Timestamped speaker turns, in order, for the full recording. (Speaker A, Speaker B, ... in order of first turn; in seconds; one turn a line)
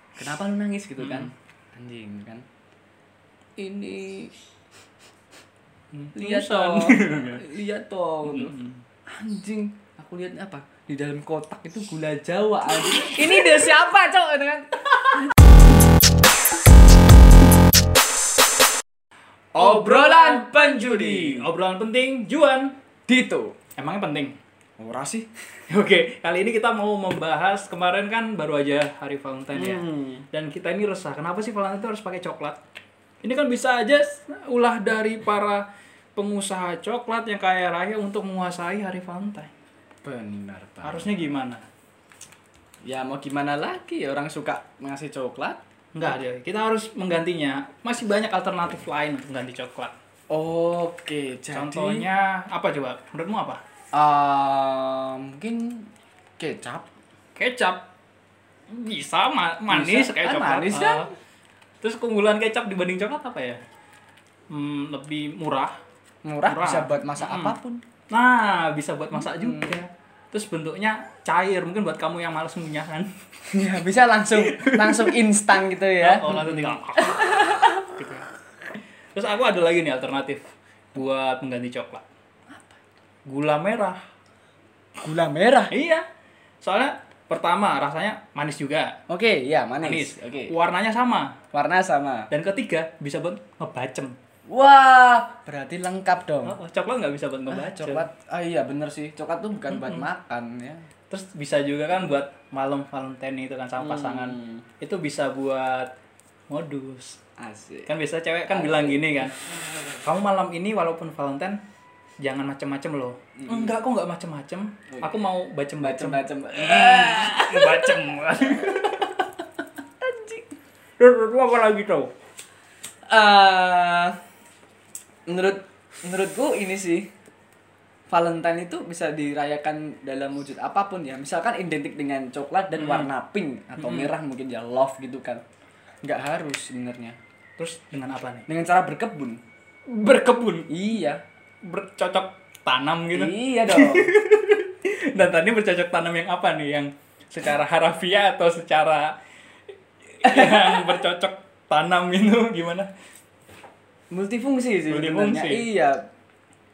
Speaker A: 0.2-2.4
Speaker B: 1.0-1.3
Speaker A: 3.6-4.3
Speaker B: 5.9-7.4
Speaker A: 6.2-8.6
Speaker B: 8.3-8.8
Speaker A: 9.1-15.3
Speaker B: 13.2-13.7
Speaker A: 19.6-21.5
Speaker B: 19.6-22.7
Speaker A: 23.1-23.6
Speaker B: 23.8-24.4
Speaker A: 24.8-25.3
Speaker B: 25.7-32.6
Speaker A: 29.5-30.2
Speaker B: 33.2-35.6
Speaker B: 36.1-39.5
Speaker A: 40.0-41.1
Speaker B: 40.8-41.6
Speaker A: 42.8-45.6
Speaker B: 45.9-49.9
Speaker A: 50.3-52.1
Speaker B: 51.5-53.6
Speaker A: 53.9-55.9
Speaker A: 56.4-56.9
Speaker B: 57.4-57.9
Speaker B: 58.7-61.1
Speaker A: 59.7-61.1
Speaker B: 61.8-63.6
Speaker B: 64.5-65.7
Speaker A: 66.2-67.8
Speaker B: 66.5-67.5
Speaker B: 68.1-73.1
Speaker A: 69.2-69.8
Speaker A: 73.5-77.9
Speaker B: 74.3-75.2
Speaker B: 76.0-78.2
Speaker B: 79.1-80.4
Speaker B: 80.9-82.0
Speaker A: 82.5-82.8
Speaker B: 83.2-84.0
Speaker A: 85.0-85.7
Speaker B: 85.7-86.0
Speaker B: 86.6-89.0
Speaker A: 89.1-90.5
Speaker B: 89.8-91.3
Speaker A: 91.5-92.3
Speaker B: 92.3-94.1
Speaker A: 94.5-96.6
Speaker B: 96.4-98.1
Speaker A: 97.5-100.9
Speaker B: 99.7-100.1
Speaker B: 101.1-105.9
Speaker A: 103.8-104.6
Speaker B: 106.5-107.2
Speaker A: 107.4-107.9
Speaker B: 107.9-109.3
Speaker A: 108.5-109.3
Speaker B: 110.0-111.6
Speaker B: 112.2-119.1
Speaker A: 113.4-113.8
Speaker A: 114.9-115.2
Speaker A: 115.8-118.9
Speaker A: 120.0-120.4
Speaker B: 121.0-122.1
Speaker A: 123.0-124.2
Speaker A: 125.3-127.1
Speaker A: 128.1-135.4
Speaker B: 132.8-133.1
Speaker B: 133.8-134.1
Speaker A: 136.0-137.2
Speaker B: 137.6-138.5
Speaker A: 138.5-139.4
Speaker B: 139.9-140.7
Speaker A: 140.7-141.2
Speaker B: 141.6-149.1
Speaker A: 143.1-144.1
Speaker B: 150.2-152.9
Speaker A: 150.2-150.9
Speaker A: 154.1-156.0
Speaker B: 154.9-155.7